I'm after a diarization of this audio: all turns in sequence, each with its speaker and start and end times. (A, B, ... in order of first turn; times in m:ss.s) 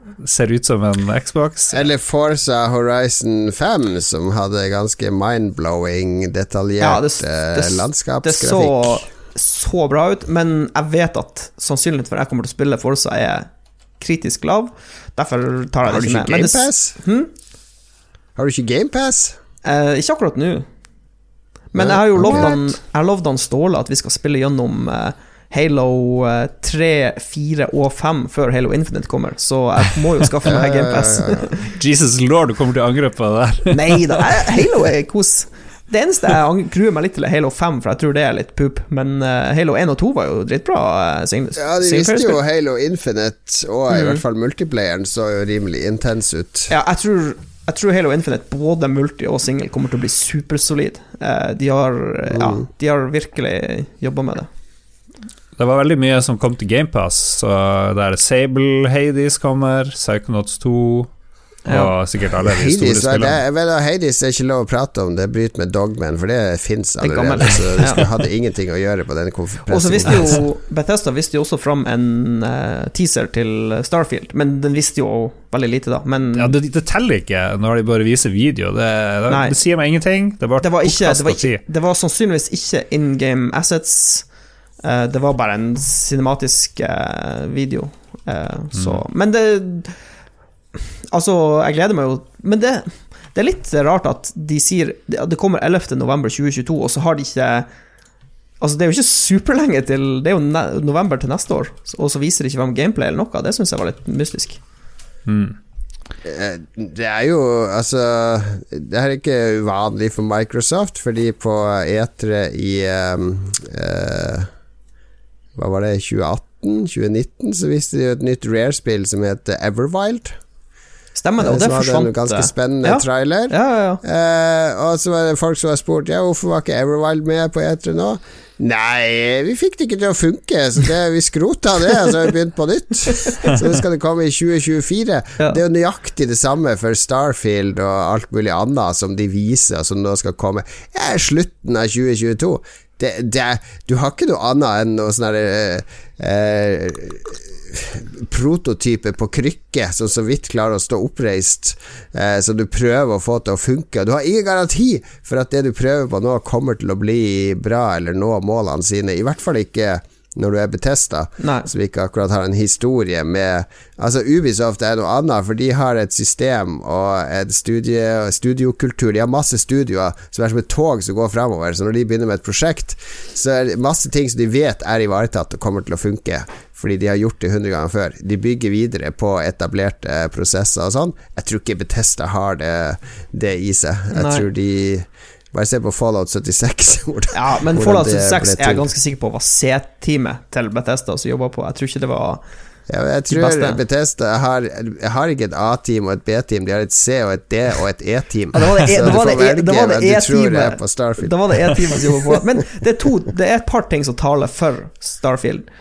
0:00.2-0:01.8 A
0:01.7-0:09.0 B
0:06.8-0:13.5 C
0:14.0-0:17.3 C
0:15.8-0:17.0 B
0:18.4-0:19.4 B
0:19.6-0:20.7 C
0:21.7-0:31.7 C
0:21.7-0:22.6 B
0:30.4-0:31.5 B
0:31.7-0:34.4 A
0:33.7-0:42.4 C
0:41.6-0:46.7 B
0:43.9-0:44.2 C
0:46.7-0:54.5 C
0:52.3-0:52.6 B
0:55.6-1:01.1 A
1:01.7-1:01.9 C
1:01.7-1:03.4 A
1:02.4-1:10.4 B
1:07.0-1:08.1 C
1:09.7-1:16.6 C
1:16.3-1:21.6 A
1:19.3-1:19.6 C
1:20.6-1:24.3 C
1:24.8-1:30.0 C
1:28.8-1:29.0 A
1:31.1-1:37.7 C
1:38.6-1:44.6 C
1:45.3-1:45.6 A
1:46.2-1:54.5 B
1:55.6-2:00.4 B
2:01.2-2:04.0 C
2:01.4-3:08.9 B
2:13.2-2:13.6 C
2:41.4-2:41.7 C
3:04.1-3:04.5 C
3:07.3-3:12.4 C
3:12.9-3:22.4 B
3:13.3-3:13.8 C
3:18.5-3:25.7 C